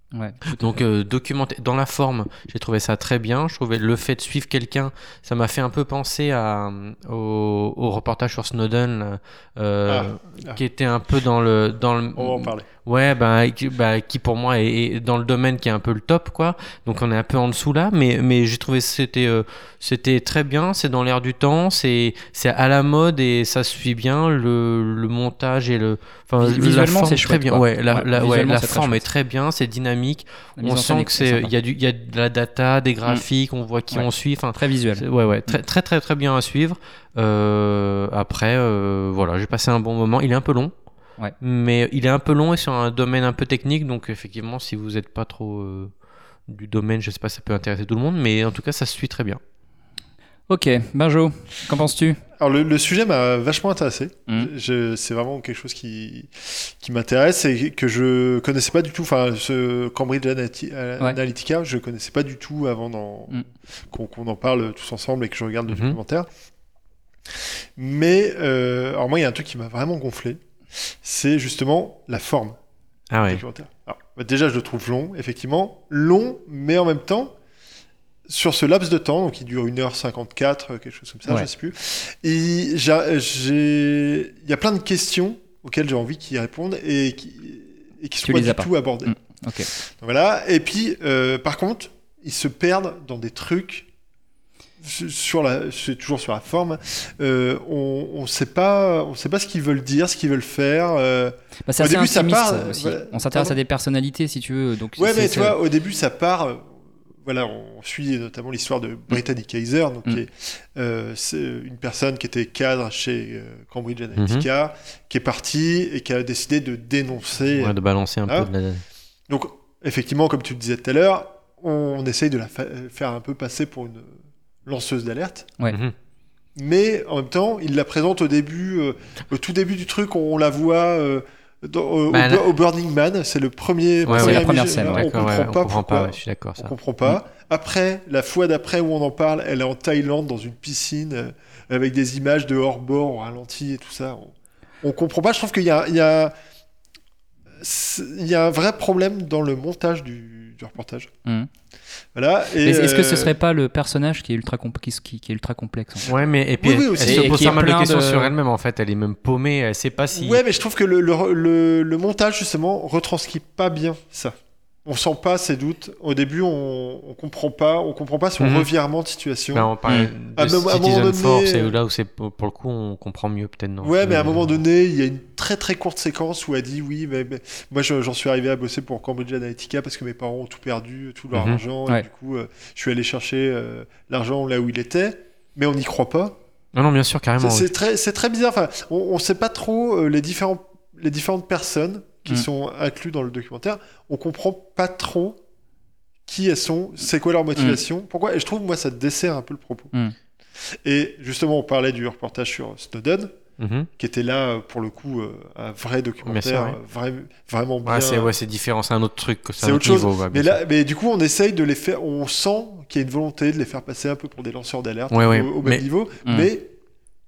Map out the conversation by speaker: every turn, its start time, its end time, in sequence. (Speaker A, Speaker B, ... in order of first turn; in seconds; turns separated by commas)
Speaker A: 0.1-0.8, Speaker B: 0.5-40.7, Speaker C: 9.9-10.6, Speaker C: 12.2-12.7, Speaker A: 26.4-29.0, Speaker A: 30.6-31.5, Speaker A: 33.9-35.6, Speaker B: 41.4-45.9, Speaker B: 46.5-49.4, Speaker A: 50.5-52.2, Speaker C: 52.4-66.3, Speaker B: 65.7-66.0, Speaker C: 67.8-72.6, Speaker B: 73.1-73.4, Speaker C: 73.3-77.3, Speaker C: 78.3-89.2, Speaker A: 88.2-89.7, Speaker C: 89.7-93.9, Speaker C: 94.8-103.6, Speaker A: 101.7-105.6, Speaker C: 105.0-106.7, Speaker C: 107.2-118.5, Speaker B: 114.2-114.5, Speaker B: 117.5-118.8, Speaker C: 119.3-125.5, Speaker C: 126.6-146.3, Speaker B: 132.1-132.5, Speaker B: 134.1-136.7, Speaker A: 134.1-135.1, Speaker C: 147.6-151.1, Speaker C: 152.1-153.3, Speaker A: 152.6-156.1, Speaker B: 156.0-160.4, Speaker C: 156.1-157.6, Speaker A: 157.0-158.3, Speaker C: 160.1-164.3, Speaker C: 164.9-171.7, Speaker B: 168.4-168.7, Speaker B: 169.5-174.4, Speaker A: 169.9-170.1, Speaker C: 173.8-186.4, Speaker B: 181.3-181.6, Speaker B: 186.8-187.7, Speaker C: 187.4-195.4, Speaker C: 196.3-199.9, Speaker C: 200.8-203.3, Speaker B: 203.6-203.9, Speaker C: 204.0-208.4, Speaker B: 206.2-206.8, Speaker B: 207.8-210.6, Speaker C: 209.6-216.7, Speaker B: 215.1-215.8, Speaker A: 216.2-216.5